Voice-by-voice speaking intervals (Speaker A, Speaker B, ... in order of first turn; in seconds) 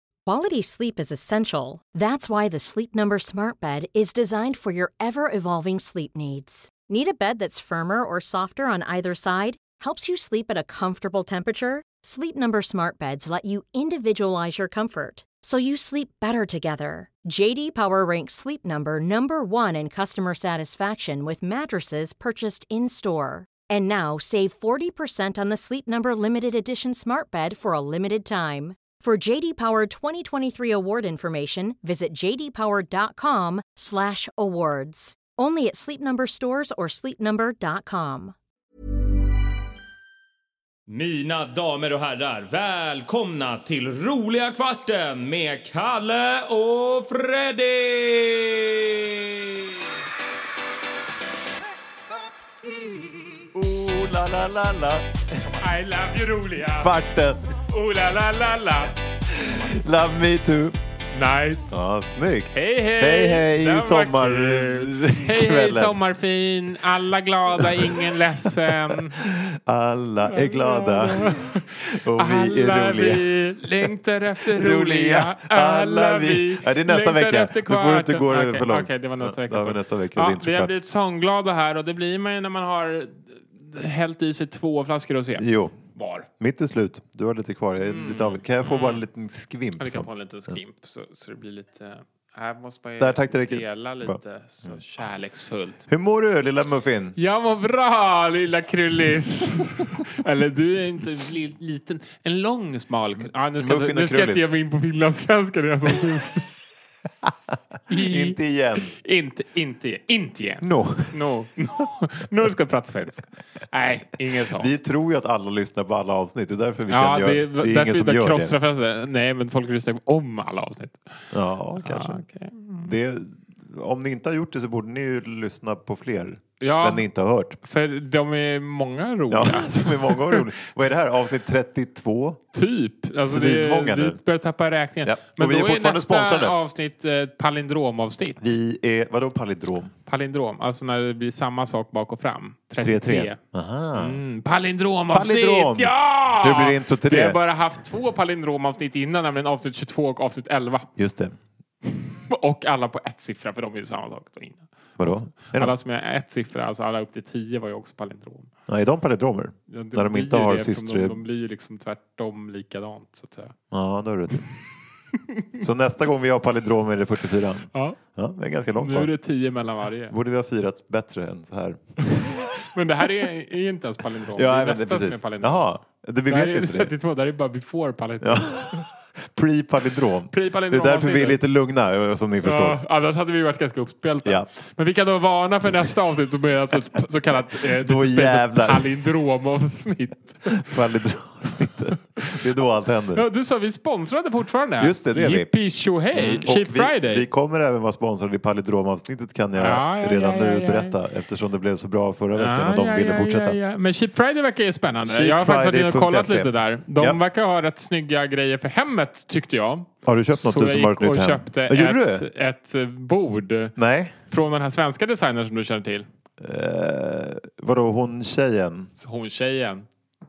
Speaker A: 0.3-38.4
Speaker B: 40.9-49.1
Speaker C: 53.5-55.1, 56.6-57.4, 59.3-60.8, 61.7-66.0, 67.6-68.2, 68.9-73.9, 74.5-80.7, 85.4-85.7, 86.4-90.6, 93.0-94.8, 95.9-97.2, 103.5-104.5, 107.9-108.9, 110.6-111.2, 114.5-118.6, 121.3-122.2, 122.8-127.6, 129.3-132.4, 133.2-134.2, 135.0-136.6, 138.4-139.9, 142.8-144.2, 145.1-147.4, 151.0-151.4, 155.0-155.7, 158.7-161.2, 163.7-164.4, 165.6-169.1, 170.1-172.5, 174.3-176.9, 178.2-182.8, 187.7-189.1, 190.5-193.2, 194.8-195.6, 196.1-203.6, 205.0-207.2, 210.0-212.3, 213.8-214.1, 216.4-218.9
Speaker D: 55.6-57.0, 57.7-59.0, 61.1-61.8, 62.5-69.2, 70.3-86.3, 87.8-89.0, 89.8-95.8, 97.2-106.5, 107.9-114.7, 116.9-121.1, 121.8-122.9, 126.6-127.1, 127.6-130.5, 132.5-138.4, 140.1-143.4, 144.0-150.9, 152.1-158.5, 159.7-163.5, 165.1-165.6, 167.7-168.0, 168.7-170.2, 172.6-175.7, 176.3-178.8, 180.3-181.4, 182.4-190.8, 192.2-192.5, 193.1-197.3, 199.6-201.0, 202.3-213.8, 214.3-216.1, 219.0-219.9